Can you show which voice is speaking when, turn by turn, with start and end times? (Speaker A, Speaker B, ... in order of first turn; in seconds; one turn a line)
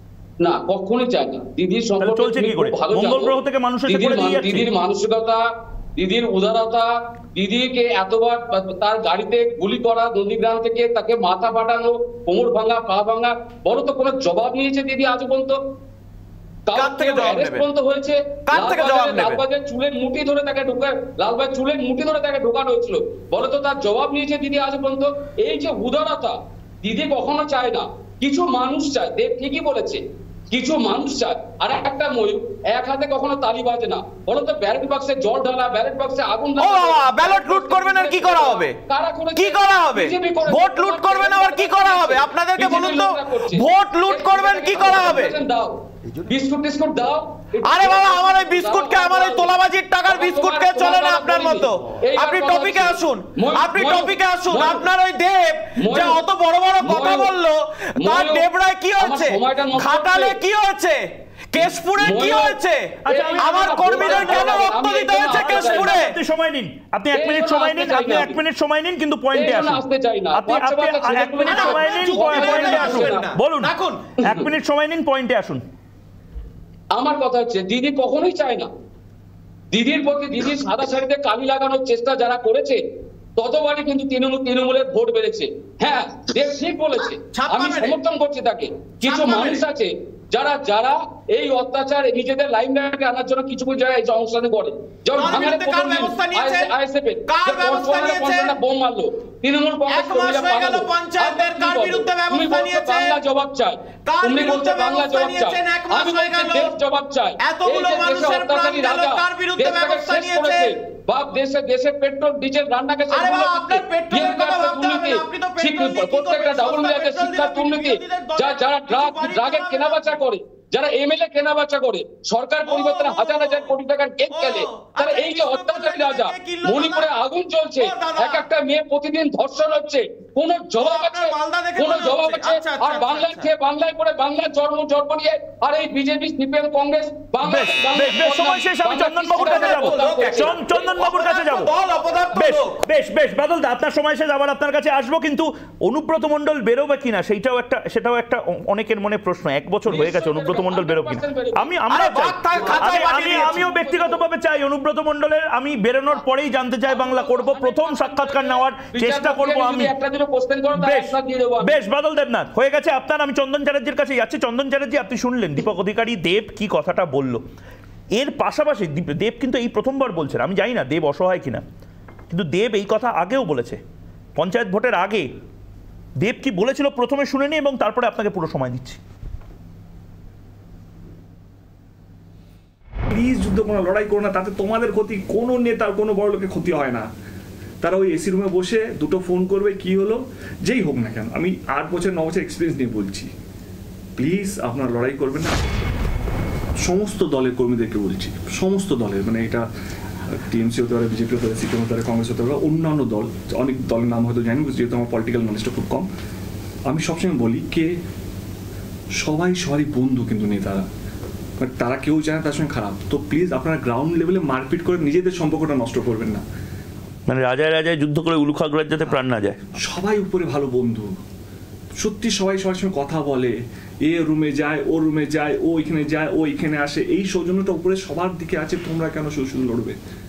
Speaker A: 0.4-5.4
Speaker B: 2.0-4.7
Speaker A: 6.0-15.6
Speaker A: 16.7-49.5
Speaker C: 16.8-17.6
Speaker C: 18.5-19.4
Speaker C: 36.6-38.7
Speaker C: 39.4-45.4
Speaker C: 47.7-66.2
Speaker A: 50.1-54.9
Speaker A: 55.8-56.2
Speaker A: 56.8-57.3
Speaker A: 58.0-58.5
Speaker A: 59.0-60.4
Speaker A: 62.0-62.6
Speaker B: 63.0-69.8
Speaker A: 63.1-66.0
Speaker A: 67.1-68.4
Speaker A: 69.3-73.3
Speaker B: 70.3-73.7
Speaker C: 71.5-74.2
Speaker B: 74.2-75.6
Speaker A: 77.0-78.7
Speaker A: 79.7-82.8
Speaker A: 83.4-140.6
Speaker C: 87.2-88.0
Speaker C: 89.0-89.6
Speaker C: 95.2-96.7
Speaker C: 97.3-98.6
Speaker C: 99.9-103.2
Speaker C: 104.1-106.7
Speaker C: 107.4-110.7
Speaker C: 113.1-120.2
Speaker C: 122.7-123.7
Speaker C: 124.3-127.1
Speaker C: 127.8-128.5
Speaker C: 130.8-133.5
Speaker B: 137.4-141.7
Speaker C: 139.4-142.7
Speaker B: 142.3-159.9
Speaker A: 149.9-151.7
Speaker C: 151.9-153.7
Speaker A: 152.6-154.2
Speaker A: 156.9-161.8
Speaker B: 160.8-167.4
Speaker B: 168.2-171.6
Speaker B: 172.3-173.8
Speaker B: 174.4-175.3
Speaker B: 176.2-179.0
Speaker D: 183.1-187.1
Speaker D: 187.8-193.3
Speaker D: 194.2-195.6
Speaker D: 196.8-199.7
Speaker D: 200.3-206.1
Speaker D: 206.9-208.0
Speaker D: 209.2-210.9
Speaker D: 211.6-216.4
Speaker B: 217.3-219.6
Speaker D: 219.8-221.2
Speaker D: 222.0-230.0